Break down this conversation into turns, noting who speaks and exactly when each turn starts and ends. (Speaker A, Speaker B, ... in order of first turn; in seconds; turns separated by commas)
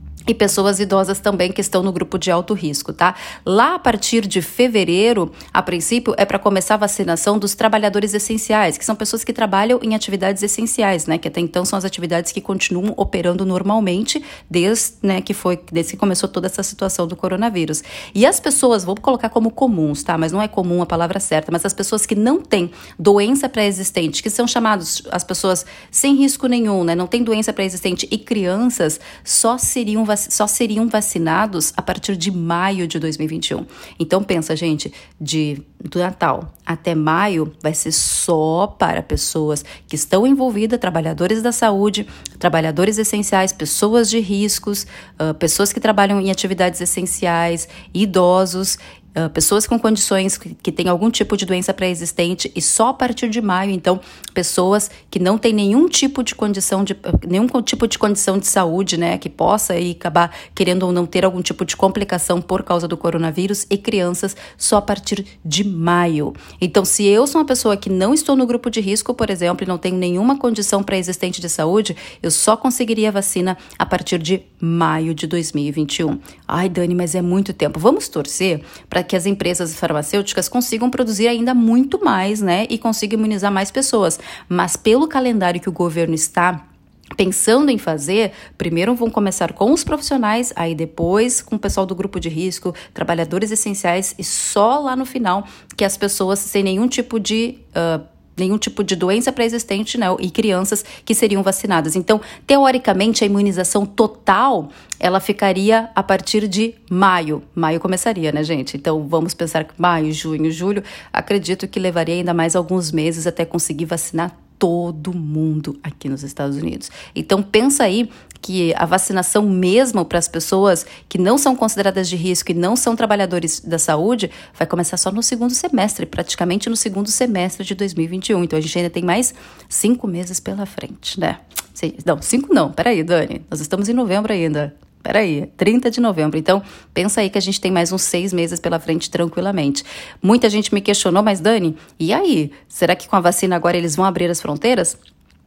Speaker A: 0.3-86.6, Speaker A: 87.2-145.0